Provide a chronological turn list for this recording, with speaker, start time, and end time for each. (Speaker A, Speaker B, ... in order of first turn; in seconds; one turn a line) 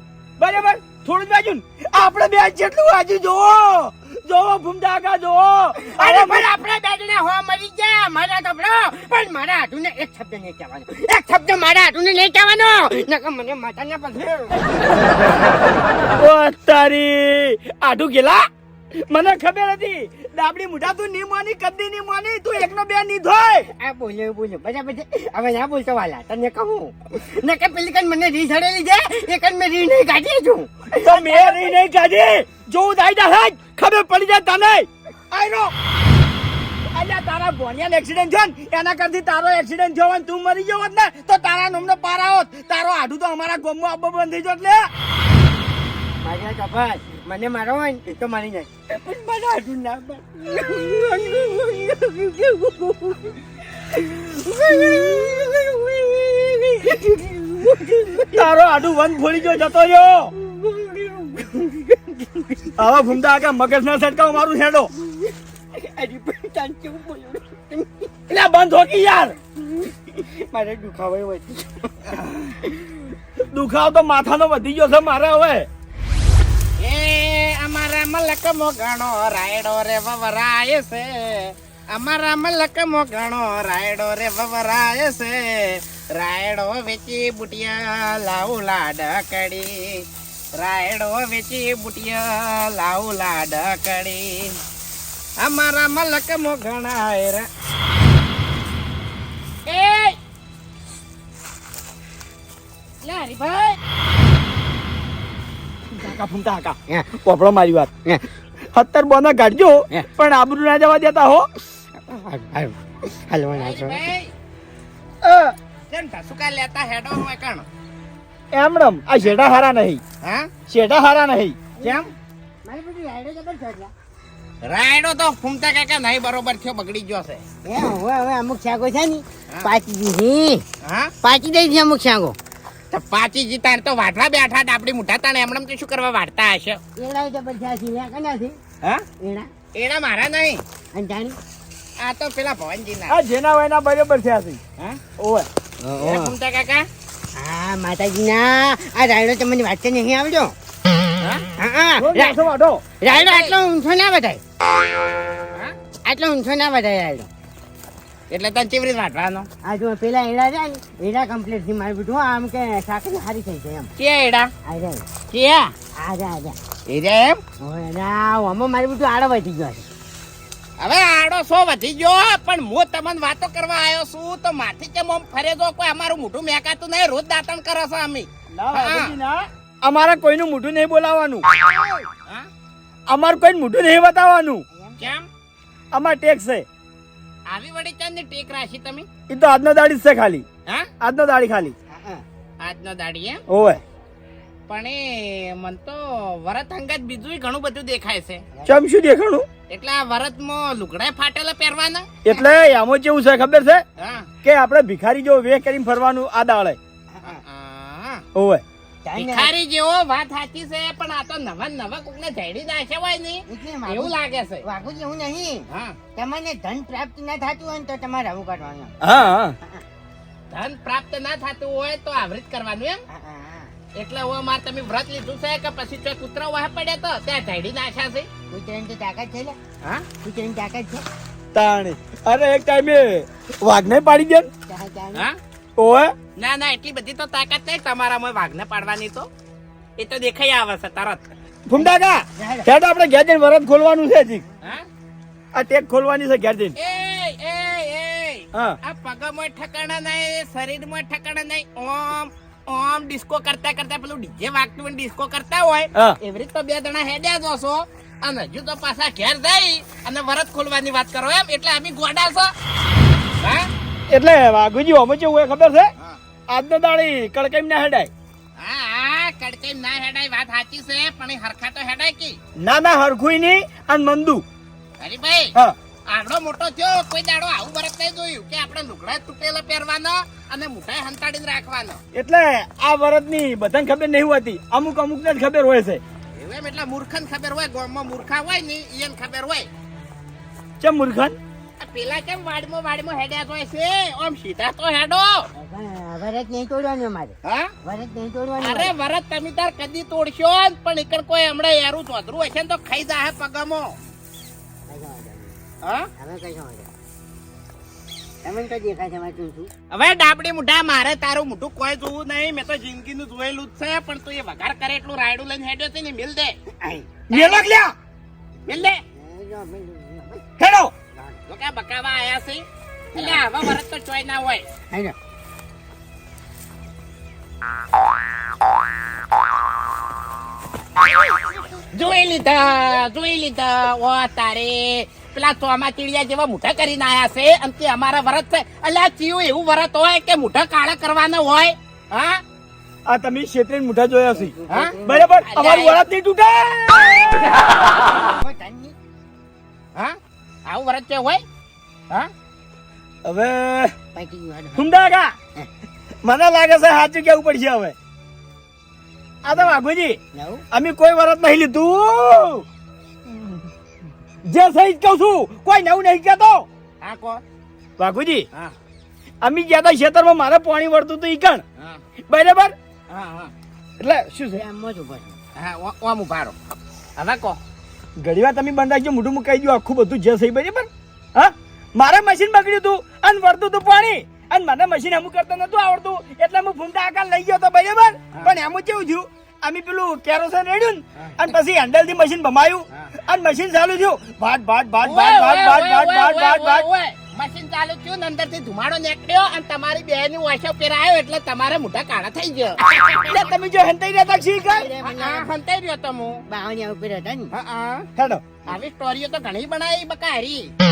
Speaker A: 0.4-6.6
Speaker B: 5.8-15.5
Speaker A: 16.2-18.4
Speaker A: 19.1-23.7
Speaker B: 23.8-31.6
Speaker A: 30.9-35.7
Speaker A: 36.9-44.9
Speaker B: 46.2-58.5
Speaker A: 58.3-60.3
Speaker B: 60.4-62.7
Speaker A: 62.8-64.9
Speaker B: 65.1-68.1
Speaker A: 68.3-69.4
Speaker B: 69.6-72.8
Speaker A: 73.5-75.7
Speaker C: 76.8-90.0
Speaker C: 90.6-94.5
Speaker C: 95.4-97.5
Speaker C: 99.7-100.2
Speaker C: 103.0-103.8
Speaker A: 105.9-107.9
Speaker A: 108.7-111.5
Speaker B: 112.0-114.0
Speaker C: 113.5-114.3
Speaker A: 115.2-115.5
Speaker C: 115.9-117.7
Speaker A: 118.5-120.0
Speaker C: 120.2-120.5
Speaker A: 120.7-121.5
Speaker C: 121.8-122.1
Speaker B: 122.6-123.9
Speaker C: 124.6-127.4
Speaker B: 127.6-130.6
Speaker C: 130.8-131.1
Speaker B: 131.2-132.3
Speaker C: 132.9-136.8
Speaker B: 136.9-138.6
Speaker B: 139.2-139.5
Speaker C: 139.7-140.6
Speaker B: 140.9-141.4
Speaker C: 142.0-143.2
Speaker A: 143.1-144.6
Speaker A: 145.2-145.5
Speaker B: 145.8-146.3
Speaker C: 146.0-146.8
Speaker B: 147.3-150.5
Speaker B: 151.6-152.3
Speaker A: 152.0-152.8
Speaker B: 153.0-154.4
Speaker C: 153.1-153.5
Speaker B: 156.0-157.3
Speaker C: 158.3-159.5
Speaker B: 159.6-163.9
Speaker C: 164.0-164.5
Speaker B: 164.6-165.1
Speaker C: 165.3-165.7
Speaker B: 165.9-166.6
Speaker C: 166.9-167.4
Speaker B: 167.6-169.9
Speaker C: 170.8-179.1
Speaker A: 178.5-181.4
Speaker C: 182.2-182.5
Speaker A: 183.1-184.6
Speaker B: 184.7-185.1
Speaker C: 185.0-185.3
Speaker A: 185.9-186.7
Speaker C: 187.5-189.1
Speaker A: 189.3-190.4
Speaker A: 191.0-191.7
Speaker B: 191.9-192.2
Speaker C: 192.6-193.4
Speaker A: 193.5-193.8
Speaker C: 194.7-198.4
Speaker A: 198.6-199.4
Speaker C: 199.7-202.1
Speaker A: 202.2-203.8
Speaker C: 204.0-204.3
Speaker A: 204.4-206.8
Speaker B: 207.1-207.4
Speaker C: 207.2-208.2
Speaker A: 208.3-208.6
Speaker B: 209.0-209.5
Speaker C: 209.2-214.6
Speaker B: 213.5-219.0
Speaker C: 215.7-216.0
Speaker A: 219.0-219.5
Speaker C: 220.5-223.0
Speaker B: 223.1-223.7
Speaker C: 224.0-228.3
Speaker B: 228.5-229.6
Speaker B: 230.2-231.0
Speaker A: 231.5-234.5
Speaker B: 234.7-235.2
Speaker A: 235.8-236.1
Speaker C: 236.4-239.3
Speaker C: 240.0-241.2
Speaker A: 241.7-244.4
Speaker B: 241.8-242.7
Speaker A: 245.5-246.7
Speaker C: 246.8-262.5
Speaker C: 263.4-263.7
Speaker A: 264.1-265.9
Speaker A: 266.5-268.1
Speaker C: 268.6-272.4
Speaker A: 272.6-274.4
Speaker C: 275.0-275.5
Speaker C: 276.1-282.0
Speaker A: 282.1-286.0
Speaker C: 286.4-289.7
Speaker A: 290.8-291.4
Speaker C: 291.8-295.5
Speaker B: 295.6-298.9
Speaker C: 297.4-297.7
Speaker C: 298.6-303.9
Speaker B: 304.9-305.6
Speaker C: 305.8-306.1
Speaker B: 306.2-306.9
Speaker B: 308.4-309.7
Speaker C: 309.9-316.6
Speaker B: 316.8-317.1
Speaker A: 317.3-317.9
Speaker C: 317.3-317.6
Speaker C: 318.6-319.0
Speaker B: 318.7-320.4
Speaker A: 320.6-320.9
Speaker C: 321.5-324.6
Speaker B: 323.1-323.4
Speaker C: 331.9-342.4
Speaker A: 343.1-347.5
Speaker B: 344.4-345.3
Speaker C: 344.7-346.0
Speaker B: 347.0-348.9
Speaker C: 349.9-351.4
Speaker A: 353.2-353.9
Speaker B: 354.1-354.9
Speaker A: 354.8-355.3
Speaker A: 356.2-357.9
Speaker A: 359.4-360.2
Speaker B: 359.5-359.8
Speaker B: 360.3-360.6
Speaker A: 360.7-362.6
Speaker A: 364.5-366.7
Speaker C: 367.0-367.4
Speaker A: 368.0-368.5
Speaker A: 369.4-371.6
Speaker A: 372.3-372.7
Speaker C: 373.1-373.5
Speaker A: 374.0-374.6
Speaker B: 374.5-375.4
Speaker C: 375.6-376.5
Speaker C: 377.2-377.6
Speaker A: 378.2-396.9
Speaker C: 395.0-403.5
Speaker A: 403.3-404.9
Speaker B: 404.6-405.5
Speaker C: 405.0-406.4
Speaker B: 406.5-407.5
Speaker C: 407.5-408.1
Speaker A: 408.1-408.4
Speaker C: 408.6-410.7